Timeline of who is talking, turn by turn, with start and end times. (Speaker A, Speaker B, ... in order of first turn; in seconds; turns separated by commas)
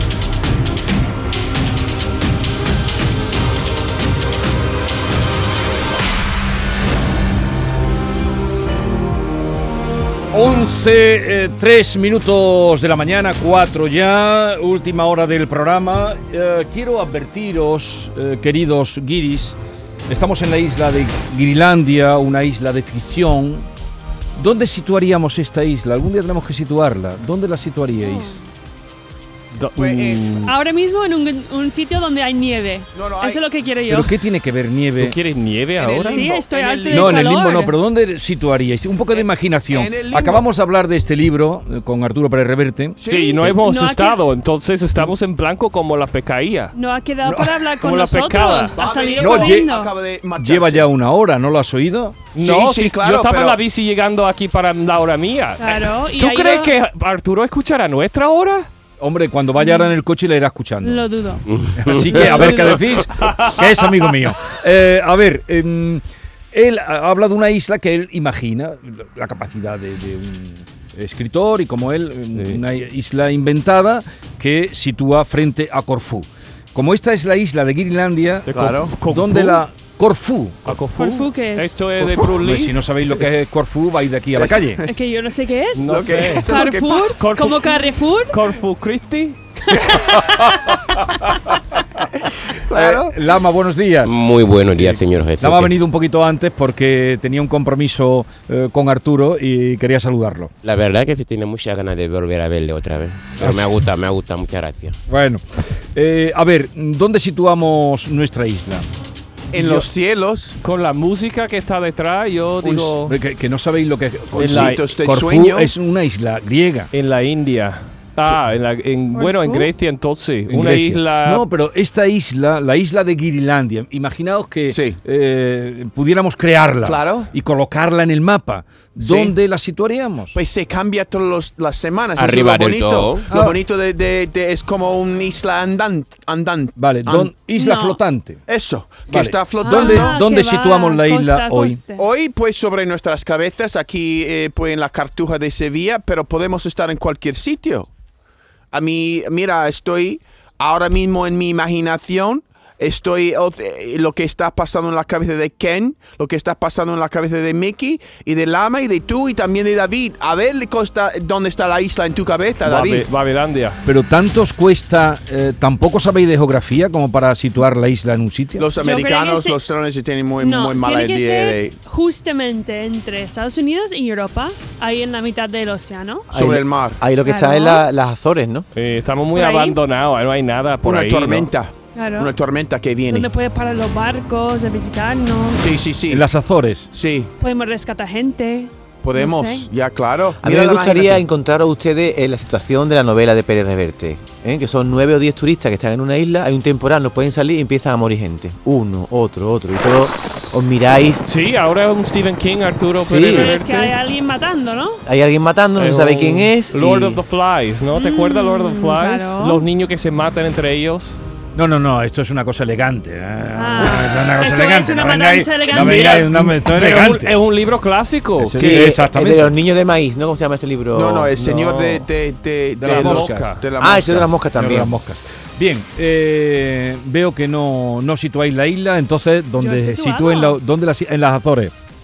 Speaker A: 10.3-23.7, Speaker A: 24.4-28.4, Speaker B: 28.0-28.4, Speaker C: 29.5-30.5, Speaker D: 29.8-30.3, Speaker B: 30.5-34.2, Speaker D: 32.9-33.4, Speaker A: 33.9-35.2, Speaker C: 35.0-36.2, Speaker D: 35.8-37.3, Speaker B: 36.0-37.8, Speaker A: 36.9-43.5, Speaker D: 39.1-40.5, Speaker D: 43.0-43.4, Speaker C: 43.0-46.7, Speaker B: 43.5-44.2, Speaker B: 46.7-50.0, Speaker A: 47.2-47.6, Speaker C: 47.8-48.8, Speaker D: 48.8-50.9, Speaker A: 49.2-49.7, Speaker A: 50.3-52.3, Speaker C: 52.3-58.7, Speaker D: 52.4-53.6, Speaker B: 55.6-56.7, Speaker A: 59.0-61.1, Speaker B: 59.6-59.9, Speaker B: 60.8-61.5, Speaker E: 61.5-62.8, Speaker A: 61.8-66.0, Speaker B: 62.0-62.9, Speaker C: 63.2-63.8, Speaker A: 66.5-80.8, Speaker C: 72.3-72.6, Speaker C: 78.5-79.6, Speaker D: 78.5-78.9, Speaker C: 80.7-83.3, Speaker B: 81.0-81.8, Speaker A: 82.0-84.8, Speaker D: 84.3-85.0, Speaker B: 84.9-88.3, Speaker C: 85.8-86.7, Speaker D: 85.9-87.1, Speaker C: 87.2-89.4, Speaker B: 89.7-90.6, Speaker D: 92.2-93.2, Speaker A: 92.7-94.1, Speaker E: 94.0-95.8, Speaker A: 94.8-100.5, Speaker E: 100.6-105.0, Speaker A: 103.4-103.7, Speaker A: 105.1-105.4, Speaker A: 105.9-108.9, Speaker A: 109.5-109.9, Speaker D: 109.5-110.6, Speaker C: 110.6-113.2, Speaker A: 112.6-116.9, Speaker D: 114.3-115.7, Speaker C: 114.4-114.8, Speaker C: 116.9-121.5, Speaker B: 119.1-119.7, Speaker A: 120.5-130.4, Speaker D: 124.7-125.0, Speaker D: 126.8-127.3, Speaker D: 129.0-129.4, Speaker D: 130.3-137.3, Speaker E: 132.2-133.3, Speaker A: 133.3-133.6, Speaker A: 136.8-138.4, Speaker B: 137.5-138.0, Speaker D: 138.5-140.2, Speaker A: 139.1-141.8, Speaker B: 139.6-142.0, Speaker D: 142.0-147.9, Speaker D: 148.7-163.1, Speaker C: 162.6-163.8, Speaker A: 163.9-168.7, Speaker D: 168.6-171.8, Speaker B: 168.8-169.6, Speaker B: 170.4-176.3, Speaker F: 176.3-178.7, Speaker D: 176.3-177.0, Speaker B: 177.2-177.8, Speaker C: 178.8-181.5, Speaker B: 179.3-179.8, Speaker D: 180.8-183.3, Speaker B: 181.9-182.3, Speaker B: 183.1-185.7, Speaker D: 185.6-186.3, Speaker A: 186.1-186.9, Speaker D: 186.9-187.3, Speaker B: 187.4-189.7, Speaker D: 189.0-191.2, Speaker F: 190.4-201.2, Speaker C: 201.2-204.0, Speaker F: 202.9-203.5, Speaker B: 203.2-205.0, Speaker F: 205.1-207.2, Speaker C: 205.8-211.2, Speaker B: 207.9-209.7, Speaker A: 211.6-217.4, Speaker B: 213.6-216.3, Speaker C: 215.7-218.7, Speaker A: 218.4-219.5, Speaker F: 218.6-221.3, Speaker D: 220.9-224.4, Speaker C: 221.4-222.1, Speaker A: 222.8-223.5, Speaker C: 222.8-223.6, Speaker F: 223.8-224.9, Speaker A: 224.5-231.7, Speaker B: 229.5-230.6